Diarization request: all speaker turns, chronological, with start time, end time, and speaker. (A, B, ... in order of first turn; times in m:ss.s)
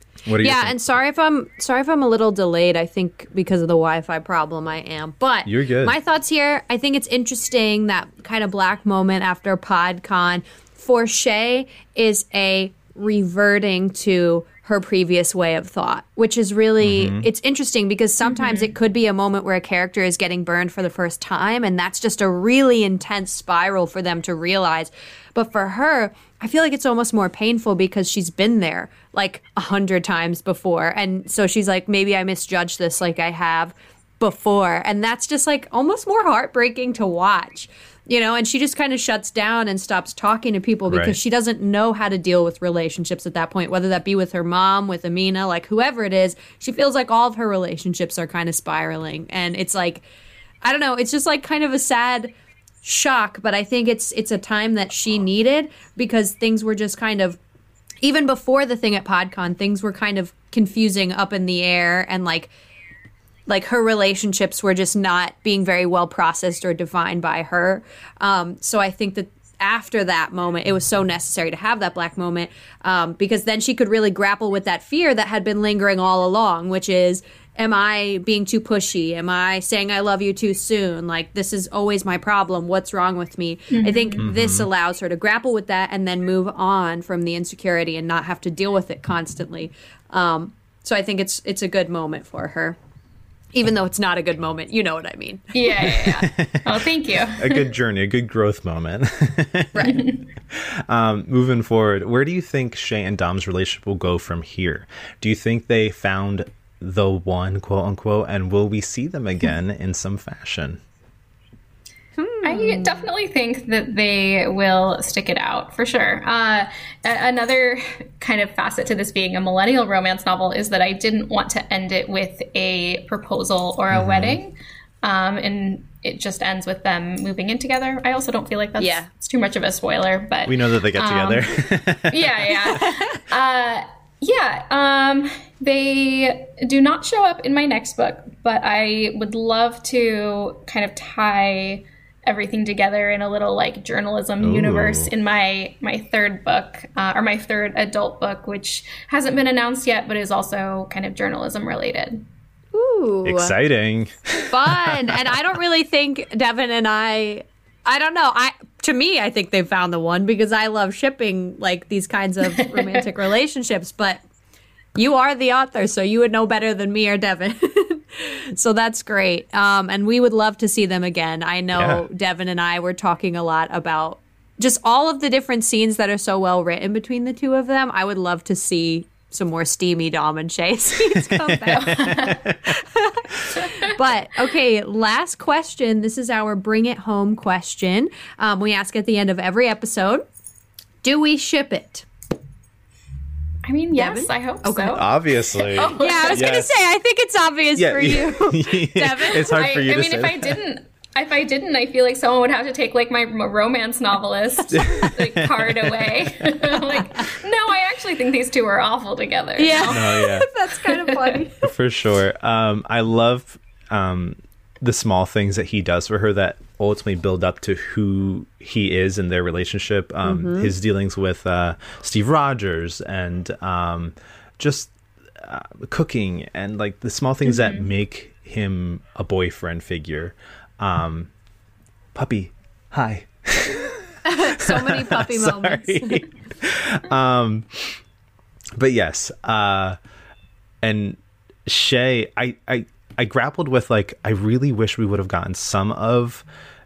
0:00.2-0:00.8 A
0:00.4-0:50.1 B
0:05.5-0:06.0 A
0:16.8-0:17.3 A
0:18.2-0:18.7 C
0:40.9-0:41.2 A
0:50.6-0:52.3 B
0:52.8-0:57.4 B
0:58.0-1:02.5 B
1:03.5-1:32.8 B
1:23.7-1:24.2 C
1:24.2-1:24.7 A
1:33.5-1:36.0 B
1:35.5-1:37.6 C
1:36.2-1:36.8 A
1:37.4-1:39.9 A
1:39.7-1:40.1 B
1:39.8-1:40.2 C
1:40.5-1:50.8 A
1:52.2-1:53.1 B
1:52.4-2:32.2 C
2:03.9-2:04.4 A
2:08.8-2:09.1 B
2:10.5-2:12.8 A
2:12.7-2:13.2 B
2:24.4-2:25.1 A
2:32.7-2:33.5 B
2:33.2-2:35.4 A
2:34.5-2:44.2 B
2:42.6-2:43.0 C
2:45.0-3:10.2 B
2:51.8-2:52.0 A
3:01.2-3:02.6 A
3:01.7-3:02.4 C
3:03.6-3:03.9 C
3:11.0-3:12.1 B
3:13.6-3:16.5 C
3:14.0-3:15.0 B
3:14.9-3:16.7 A
3:16.0-3:19.6 B
3:17.8-3:20.6 A
3:19.4-3:31.4 C
3:24.7-3:26.1 A
3:26.8-3:27.2 B
3:29.6-3:31.7 B
3:29.9-3:30.5 A
3:31.6-3:51.3 A
3:40.2-3:40.7 B
3:47.5-3:47.9 C
3:52.1-3:58.0 A
3:54.2-3:56.2 B
3:58.8-4:00.0 A
4:00.8-4:06.4 A